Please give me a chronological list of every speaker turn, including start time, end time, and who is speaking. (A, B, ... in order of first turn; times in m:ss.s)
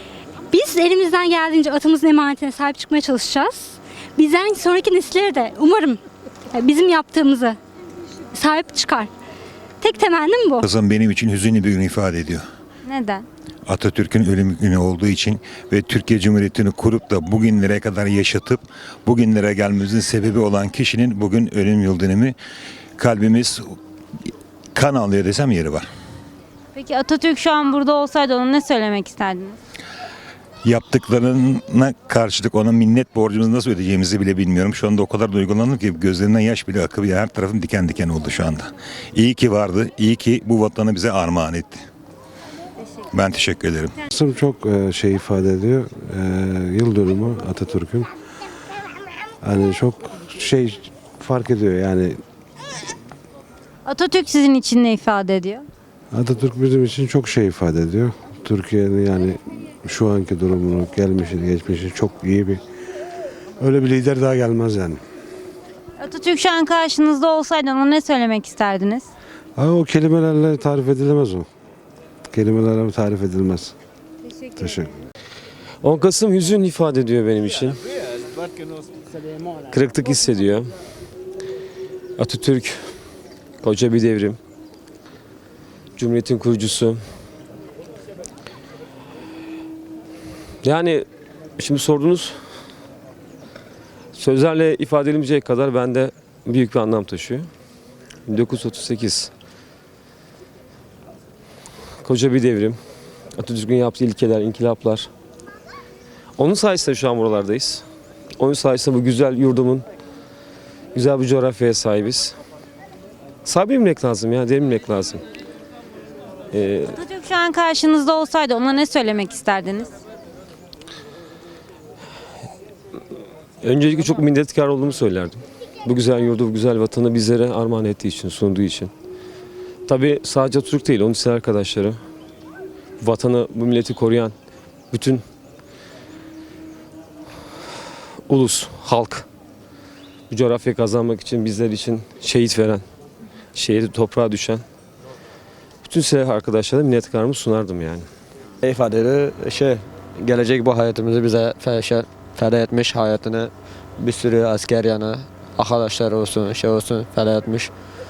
0:00.5-0:06.0 A
0:06.5-0:07.6 A
0:08.3-0:09.1 A
0:09.8-0:10.7 A
0:10.6-0:12.4 B
0:12.8-0:13.2 C
0:13.7-0:22.4 B
0:23.0-0:23.7 B
0:24.7-0:25.9 B
0:26.7-0:29.6 C
0:30.6-0:41.8 B
0:43.1-0:43.9 B
0:44.1-0:48.1 D
0:49.4-0:52.2 D
0:53.8-0:55.6 C
0:56.1-1:02.6 D
1:03.6-1:05.0 D
1:06.0-1:09.1 C
1:09.6-1:11.4 D
1:12.3-1:13.7 D
1:14.5-1:14.9 D
1:15.8-1:17.8 E
1:19.7-1:20.7 E
1:22.2-1:22.8 E
1:23.6-1:24.4 E
1:26.0-1:27.0 E
1:30.6-1:31.0 E
1:31.6-1:32.3 E
1:34.1-1:37.5 E
1:38.3-1:39.3 E
1:42.0-1:42.8 E
1:43.3-1:45.1 E
1:46.4-1:47.8 E
1:48.4-1:49.8 E
1:50.9-1:52.3 E
1:53.4-1:55.2 E
1:56.5-1:57.0 E
1:56.9-1:59.9 C
2:03.6-2:08.9 E
2:09.8-2:12.0 E
2:13.0-2:14.3 E
2:14.9-2:15.2 E
2:18.3-2:19.2 E
2:20.3-2:22.8 E
2:23.5-2:24.6 E
2:25.8-2:28.1 E
2:28.6-2:37.7 F